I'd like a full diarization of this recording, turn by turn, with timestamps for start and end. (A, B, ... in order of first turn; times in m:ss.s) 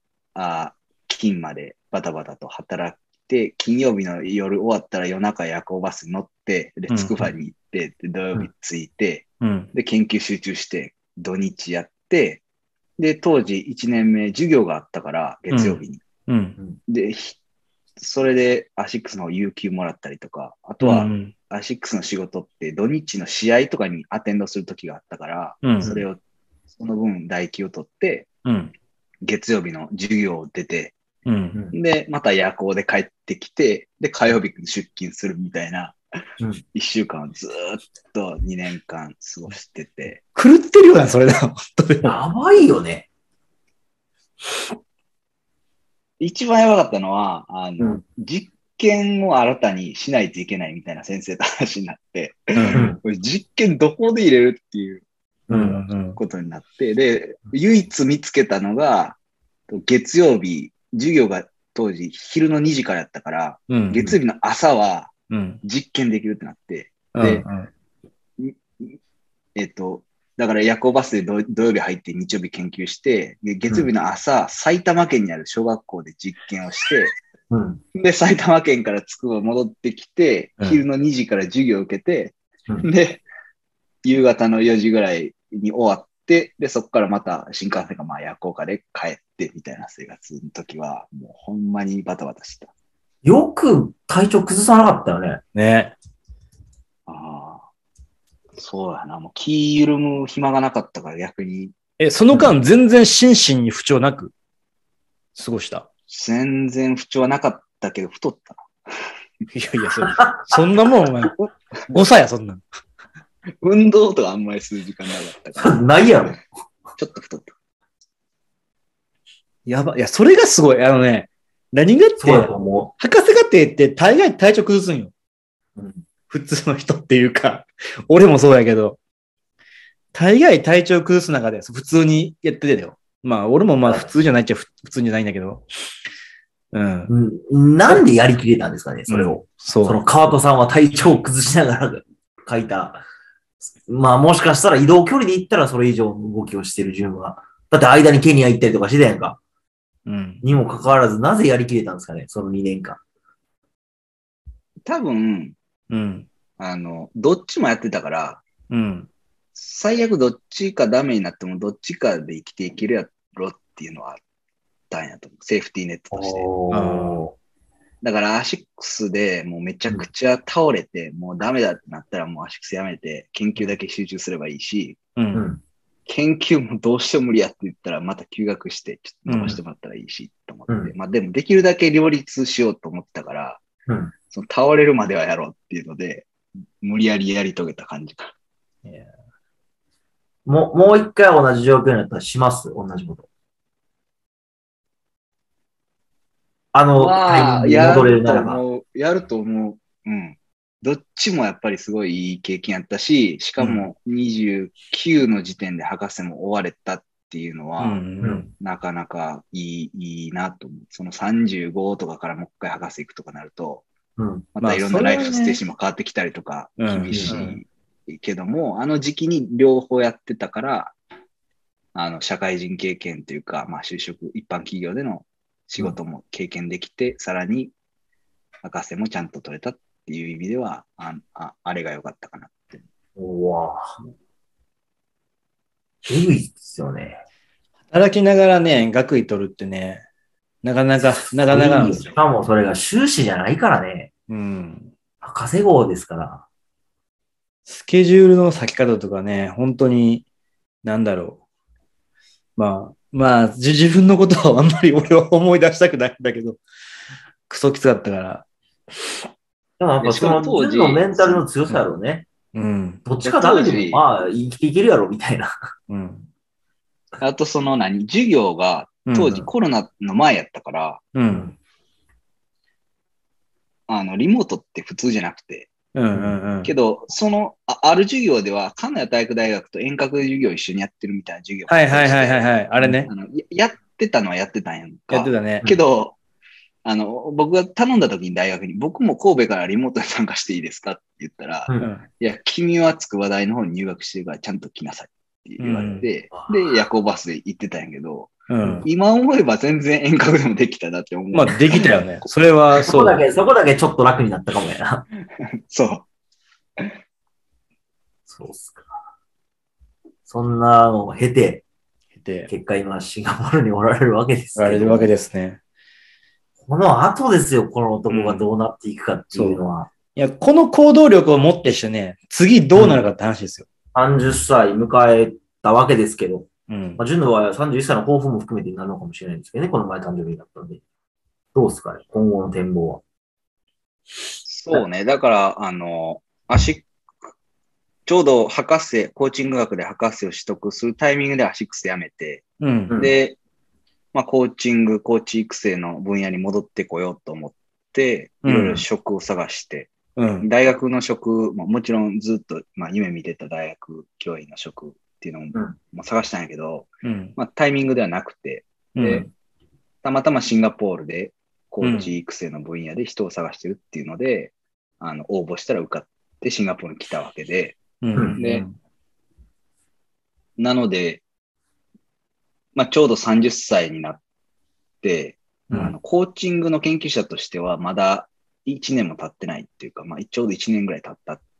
0:00.3-0:12.4 A
0:06.9-0:07.2 B
0:09.4-0:09.7 B
0:13.0-0:16.0 A
0:15.5-0:16.6 B
0:16.9-0:17.4 A
0:18.0-0:26.2 A
0:20.8-0:21.3 B
0:25.6-0:26.0 B
0:26.7-0:28.3 A
0:28.4-0:28.7 B
0:29.2-0:31.0 A
0:31.2-0:31.6 B
0:31.7-0:36.0 A
0:36.7-0:40.2 A
0:40.3-0:42.2 B
0:42.0-0:43.1 C
0:46.2-0:55.0 A
0:52.6-0:52.8 B
0:52.7-0:53.0 C
0:55.5-0:55.8 C
0:55.5-0:56.2 B
0:56.2-0:59.2 A
0:59.7-1:05.1 A
1:03.7-1:04.1 B
1:05.3-1:05.6 B
1:05.6-1:07.4 A
1:07.1-1:07.7 B
1:08.4-1:09.0 A
1:09.5-1:17.1 A
1:17.5-1:17.8 C
1:17.9-1:23.2 A
1:24.0-1:32.7 A
1:33.2-1:35.4 C
1:35.5-1:35.9 B
1:37.1-1:37.6 A
1:38.6-1:41.7 A
1:42.0-1:44.3 B
1:45.4-1:45.9 B
1:46.1-1:48.7 A
1:49.5-1:51.4 B
1:50.1-1:50.6 C
1:51.9-1:52.6 B
1:53.6-1:56.3 A
1:55.6-1:56.4 C
1:57.0-1:57.5 A
1:59.6-2:02.5 B
2:02.2-2:02.9 C
2:03.0-2:05.1 B
2:05.8-2:06.0 C
2:06.3-2:09.0 B
2:10.1-2:15.6 B
2:13.8-2:14.1 C
2:16.7-2:17.1 B
2:17.1-2:23.0 C
2:19.1-2:20.0 B
2:23.8-2:29.4 C
2:30.0-2:30.4 B
2:30.4-2:33.0 C
2:34.8-2:35.6 A
2:35.9-2:36.3 B
2:36.6-2:38.4 A
2:38.7-2:39.1 B
2:39.5-2:44.2 A
2:44.9-2:46.5 A
2:46.1-2:47.3 C
2:46.7-2:47.3 B
2:48.0-2:55.0 A
2:55.2-2:55.4 B
2:55.3-2:55.6 C
2:56.1-3:03.6 A
2:59.3-2:59.6 B
3:00.7-3:00.9 C
3:03.9-3:04.1 C
3:04.3-3:06.3 A
3:06.8-3:08.3 A
3:10.4-3:13.3 C
3:16.7-3:18.6 C
3:17.0-3:28.0 A
3:23.6-3:23.8 B
3:27.8-3:28.5 B
3:28.2-3:28.5 C
3:28.6-3:33.8 A
3:34.2-3:35.6 C
3:34.6-3:40.9 A
3:34.6-3:35.1 B
3:36.8-3:37.5 B
3:37.1-3:37.6 C
3:41.9-3:47.7 A
3:48.6-3:52.8 A
3:53.2-3:53.9 C
3:56.0-3:57.2 C
3:57.9-4:00.0 B
4:00.6-4:02.1 B
4:01.5-4:04.1 C
4:04.3-4:04.9 B
4:05.2-4:06.4 C
4:07.7-4:10.2 B
4:10.8-4:11.4 B
4:12.6-4:16.6 B
4:17.5-4:18.5 B
4:19.8-4:22.3 C
4:20.0-4:21.4 A
4:22.5-4:23.0 B
4:23.0-4:25.5 C
4:23.2-4:24.0 A
4:25.9-4:26.3 B
4:27.2-4:31.0 A
4:29.1-4:29.4 B
4:29.2-4:29.5 C
4:31.1-4:31.5 B
4:33.9-4:35.7 A
4:35.9-4:36.7 B
4:36.6-4:42.5 A
4:41.7-4:43.1 B
4:42.8-4:43.1 C
4:43.1-4:46.2 A
4:45.1-4:45.6 B
4:46.8-5:01.8 A
4:51.8-4:52.0 B
4:55.6-4:56.1 B
4:58.5-4:58.8 B
5:01.3-5:03.2 B
5:02.8-5:05.0 C
5:05.7-5:06.1 A
5:08.3-5:08.9 C
5:10.2-5:11.6 C
5:12.2-5:12.5 B
5:12.5-5:15.1 C
5:14.6-5:15.6 B
5:16.6-5:19.9 C
5:18.1-5:18.5 B
5:19.3-5:19.6 B
5:20.1-5:23.7 B
5:23.9-5:30.8 C
5:26.7-5:27.0 B
5:31.5-5:33.0 C
5:34.4-5:36.9 A
5:38.0-5:42.4 A
5:42.6-5:42.9 B
5:43.0-5:43.4 A
5:44.1-5:59.3 A
5:48.4-5:48.8 B
5:50.2-5:50.5 B
5:57.0-5:57.4 B
5:59.0-5:59.3 B
6:00.0-6:07.8 A
6:01.8-6:02.1 B
6:08.0-6:08.7 B
6:08.1-6:08.4 C
6:08.4-6:08.6 A
6:10.6-6:11.2 A
6:12.8-6:14.2 A
6:15.0-6:21.4 A